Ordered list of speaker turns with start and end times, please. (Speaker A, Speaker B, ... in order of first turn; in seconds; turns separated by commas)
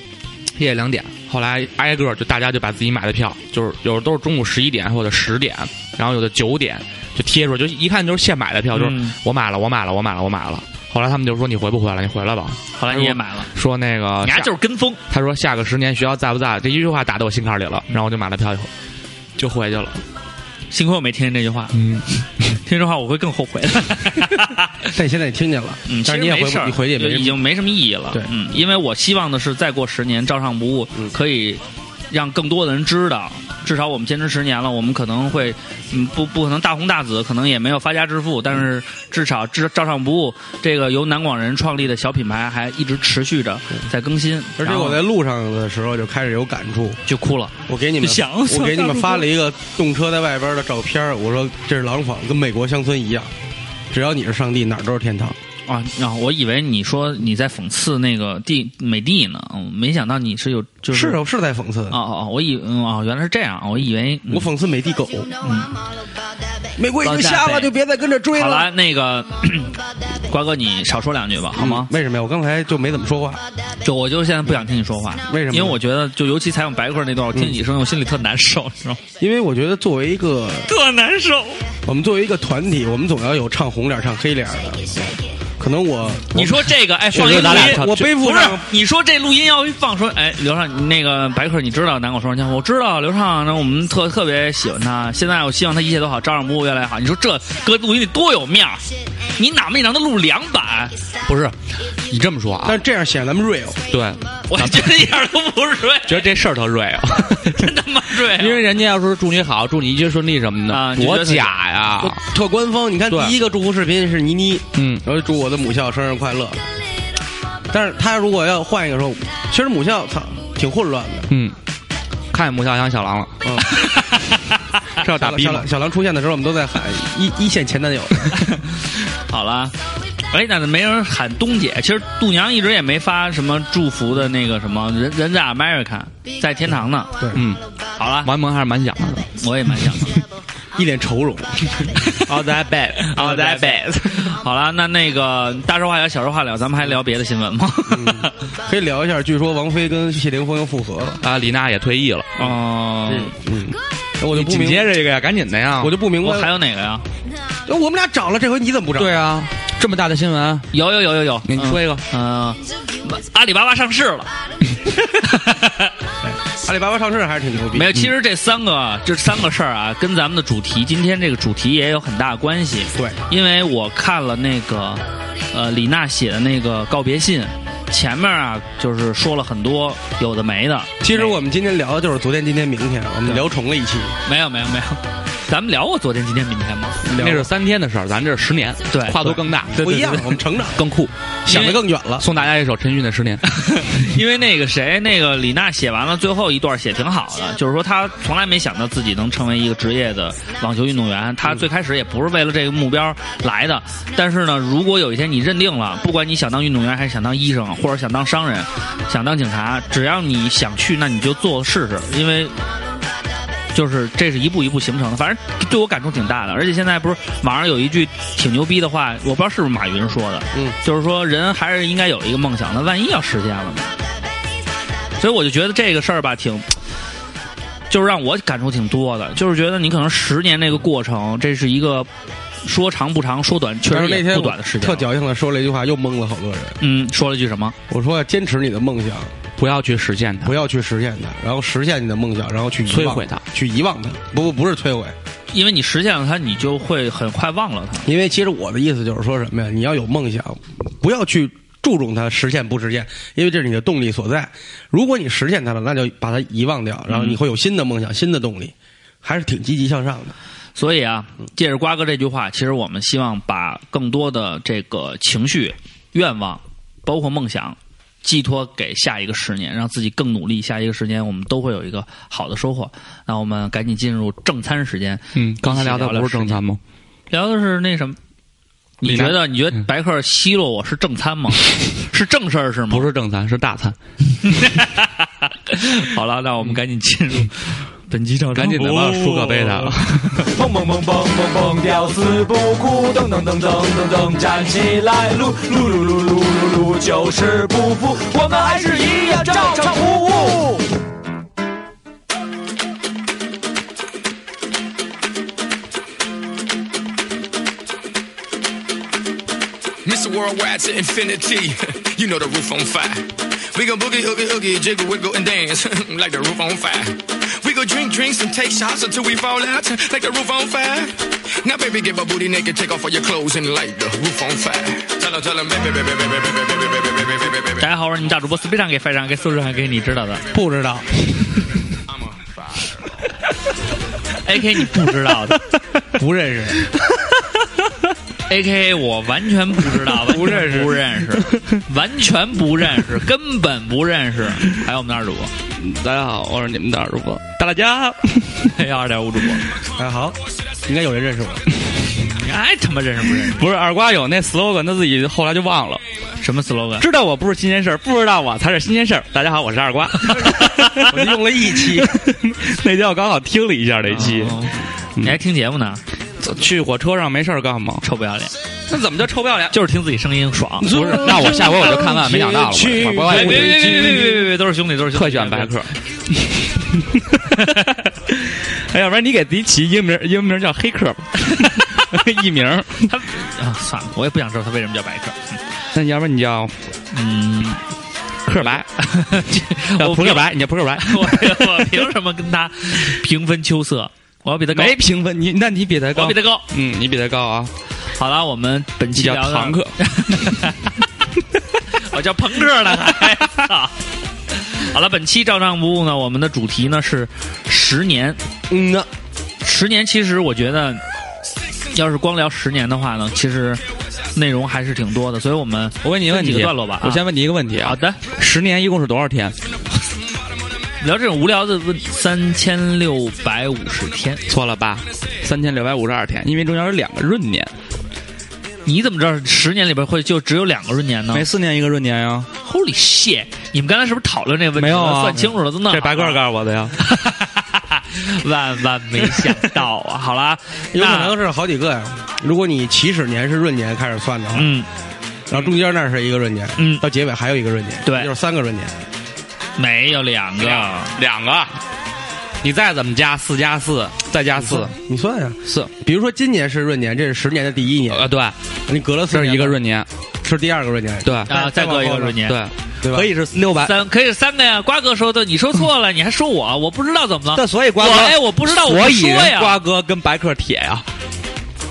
Speaker A: 0.6-14.5, Speaker B: 8.7-9.2, Speaker B: 12.8-13.5, Speaker B: 14.2-15.0, Speaker A: 15.1-18.7, Speaker A: 19.4-20.0, Speaker B: 20.7-21.8, Speaker A: 21.7-22.6, Speaker B: 22.6-24.7, Speaker C: 24.9-27.4, Speaker B: 25.9-45.0, Speaker C: 44.6-47.0, Speaker B: 47.1-49.3, Speaker C: 47.7-53.3, Speaker C: 53.9-55.4, Speaker B: 55.7-61.2, Speaker C: 60.9-62.0, Speaker B: 61.9-64.5, Speaker C: 64.3-65.3, Speaker B: 65.4-65.8, Speaker C: 66.8-68.7, Speaker B: 67.0-67.7, Speaker B: 68.3-71.9, Speaker C: 71.5-73.4, Speaker B: 73.8-79.0, Speaker C: 75.3-75.8, Speaker C: 77.3-77.6, Speaker C: 79.2-80.7, Speaker B: 80.7-81.6, Speaker C: 81.9-88.7, Speaker B: 86.3-100.9, Speaker A: 87.1-88.1, Speaker A: 101.3-101.5, Speaker A: 102.1-102.8, Speaker C: 102.6-103.8, Speaker A: 103.9-105.0, Speaker B: 104.5-106.3, Speaker A: 106.1-112.2, Speaker B: 107.5-108.6, Speaker B: 110.7-111.5, Speaker C: 112.0-116.6, Speaker A: 114.8-115.0, Speaker C: 117.7-121.3, Speaker A: 122.3-123.4, Speaker C: 123.4-123.7, Speaker B: 123.7-124.6, Speaker A: 125.0-125.7, Speaker C: 125.2-128.3, Speaker B: 129.3-129.8, Speaker B: 130.3-137.1, Speaker A: 137.3-137.6, Speaker B: 138.0-138.3, Speaker A: 138.2-140.2, Speaker B: 139.4-140.2, Speaker C: 140.8-142.0, Speaker A: 142.2-144.4, Speaker B: 143.1-148.3, Speaker C: 147.9-151.2, Speaker A: 151.2-152.3, Speaker B: 152.4-153.4, Speaker C: 153.1-154.9, Speaker A: 154.3-156.0, Speaker C: 155.8-156.5, Speaker B: 156.2-157.1, Speaker C: 157.7-159.2, Speaker A: 159.0-160.7, Speaker B: 160.7-164.3, Speaker A: 161.5-162.1, Speaker B: 165.1-165.9, Speaker C: 166.2-168.0, Speaker B: 167.7-181.4, Speaker C: 181.0-184.2, Speaker B: 184.3-187.0, Speaker C: 187.1-187.5, Speaker A: 187.1-190.1, Speaker B: 188.9-190.4, Speaker C: 189.7-190.8, Speaker A: 190.7-191.1, Speaker C: 191.5-192.3, Speaker B: 191.5-191.8, Speaker A: 192.2-193.4, Speaker B: 193.5-212.6, Speaker B: 213.7-223.9, Speaker B: 225.2-226.7, Speaker B: 227.9-232.1, Speaker B: 232.6-235.1, Speaker C: 233.9-236.8, Speaker B: 236.8-237.8, Speaker C: 237.9-239.3, Speaker A: 239.6-240.6, Speaker C: 240.4-245.2, Speaker A: 242.9-243.4, Speaker B: 245.5-248.1, Speaker C: 248.0-260.4, Speaker B: 257.1-257.4, Speaker B: 260.8-276.6, Speaker A: 275.4-276.8, Speaker B: 277.3-278.2, Speaker B: 279.0-283.1, Speaker A: 279.0-279.4, Speaker A: 282.9-284.0, Speaker B: 284.4-290.0, Speaker A: 288.6-290.5, Speaker D: 290.5-300.9, Speaker E: 310.1-327.8, Speaker B: 327.8-330.4, Speaker C: 330.5-331.5, Speaker B: 334.4-335.6, Speaker C: 336.1-336.8, Speaker B: 338.5-345.5, Speaker C: 340.4-340.9, Speaker A: 345.8-348.7, Speaker B: 348.7-349.7, Speaker C: 350.0-351.6, Speaker B: 352.2-353.6, Speaker A: 353.4-356.0, Speaker B: 356.4-357.0, Speaker A: 357.0-364.7, Speaker B: 360.3-360.9, Speaker C: 361.0-362.1, Speaker B: 364.1-366.0, Speaker A: 366.4-368.0, Speaker B: 368.0-368.5, Speaker A: 368.9-369.8, Speaker B: 369.7-371.0, Speaker C: 370.8-374.5, Speaker A: 370.9-374.3, Speaker B: 373.2-375.8, Speaker A: 375.1-383.1, Speaker B: 383.1-385.6, Speaker A: 385.9-386.8, Speaker B: 387.1-387.8, Speaker A: 388.5-388.9, Speaker B: 388.6-390.5, Speaker A: 390.0-391.9, Speaker B: 391.0-395.0, Speaker A: 394.7-397.7, Speaker B: 396.1-396.7, Speaker B: 398.2-400.9, Speaker A: 399.2-400.6, Speaker B: 402.0-404.0, Speaker B: 404.5-408.4, Speaker C: 408.7-409.1, Speaker B: 409.6-411.0, Speaker B: 411.9-413.8, Speaker B: 414.4-417.2, Speaker A: 416.0-419.6, Speaker B: 417.8-418.2, Speaker B: 421.0-424.4, Speaker A: 424.5-427.7, Speaker B: 428.9-431.4, Speaker A: 431.3-432.5, Speaker B: 432.6-436.4, Speaker A: 434.8-437.0, Speaker B: 437.0-441.4, Speaker C: 440.9-444.7, Speaker B: 444.6-444.9, Speaker C: 445.5-448.9, Speaker B: 446.8-447.0, Speaker B: 448.1-448.3, Speaker B: 449.8-451.1, Speaker A: 450.6-451.8, Speaker A: 452.6-454.9, Speaker C: 454.6-458.3, Speaker A: 458.1-458.6, Speaker C: 458.9-459.8, Speaker A: 459.3-460.1, Speaker C: 460.4-462.3, Speaker A: 461.2-461.5, Speaker B: 461.5-462.6, Speaker A: 462.4-464.0, Speaker C: 463.0-463.3, Speaker B: 463.8-469.8, Speaker A: 467.5-471.1